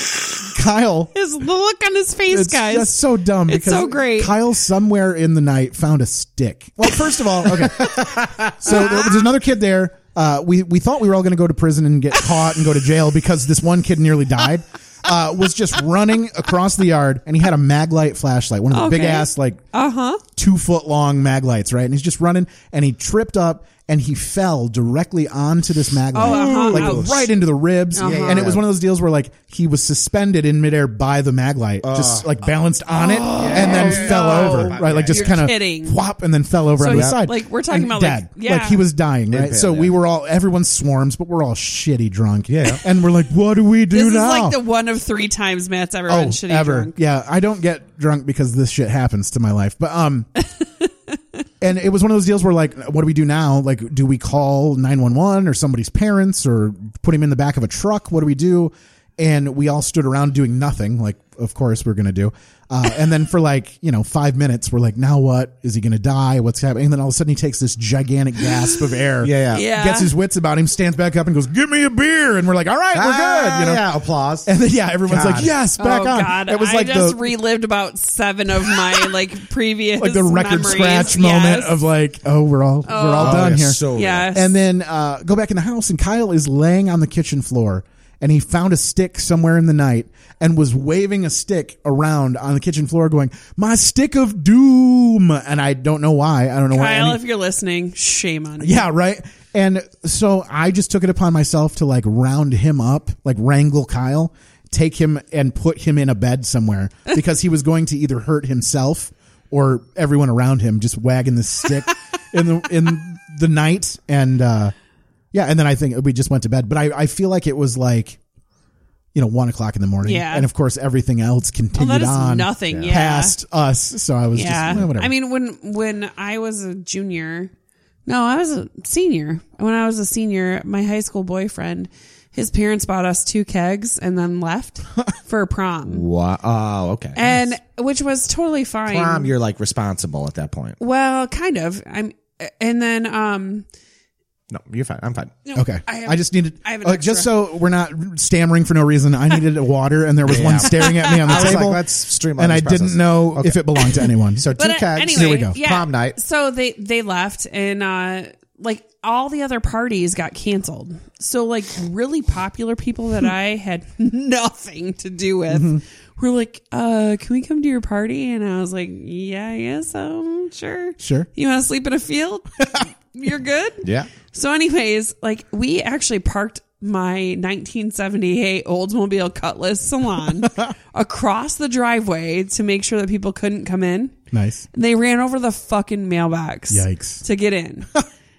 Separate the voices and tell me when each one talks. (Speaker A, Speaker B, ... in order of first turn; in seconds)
Speaker A: 0.4-1.1, 2.3-19.6, 20.4-44.6, 46.1-50.3, 51.6-73.8, 74.4-77.3, 78.6-79.1, 80.0-97.2, 98.6-114.7, 115.3-118.2, 119.1-125.1, 145.5-154.5, 155.1-155.6, 165.5-165.8, 171.0-171.3, 180.4-180.7, 184.3-184.7, 186.7-187.2
Speaker B: 1.1-4.4, 8.7-9.0, 18.7-20.2, 26.1-27.2, 27.9-28.5, 33.0-36.0, 36.8-38.8, 43.9-46.9, 50.6-50.9, 69.5-70.1, 75.8-81.8, 82.8-84.5, 96.7-98.9, 120.0-120.5, 121.8-123.3, 124.3-127.5, 128.1-136.0, 137.2-139.3, 140.8-143.7, 145.4-147.3, 150.6-151.6, 154.6-184.1, 184.7-187.9
Speaker C: 8.1-8.5, 26.2-27.2, 28.0-28.6, 31.8-32.3, 33.2-35.4, 36.9-37.2, 39.3-40.0, 42.5-42.8, 69.2-69.6, 72.9-74.5, 75.0-75.5, 83.2-84.3, 135.9-137.2, 138.9-140.8, 144.5-145.3, 150.2-156.2